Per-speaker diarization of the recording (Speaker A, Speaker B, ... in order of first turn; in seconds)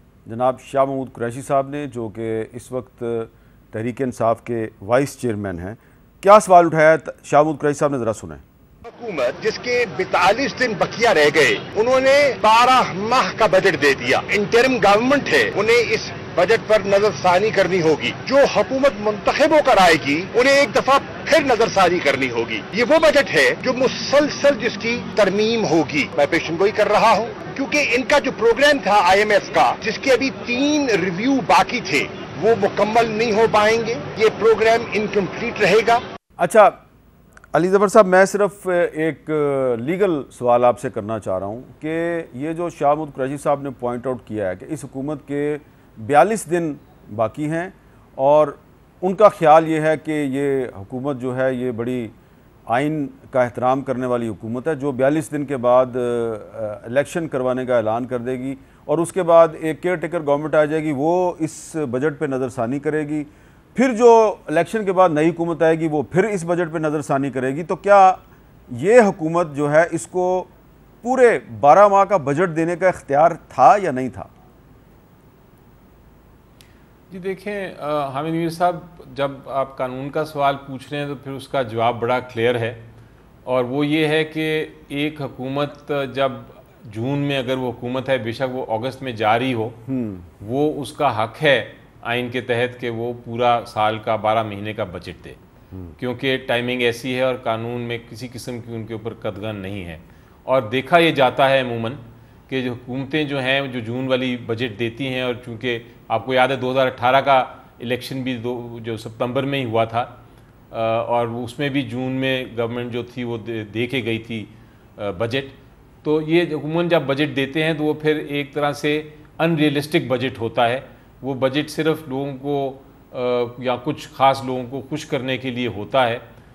Speaker A: 0.3-8.4, 36.4-36.8, 37.5-52.1, 52.7-68.2, 68.7-70.5, 71.0-74.3, 89.9-90.3
Speaker B: 8.9-36.0
Speaker C: 77.1-82.8, 83.5-89.8, 90.4-95.4, 96.0-110.1, 110.7-126.2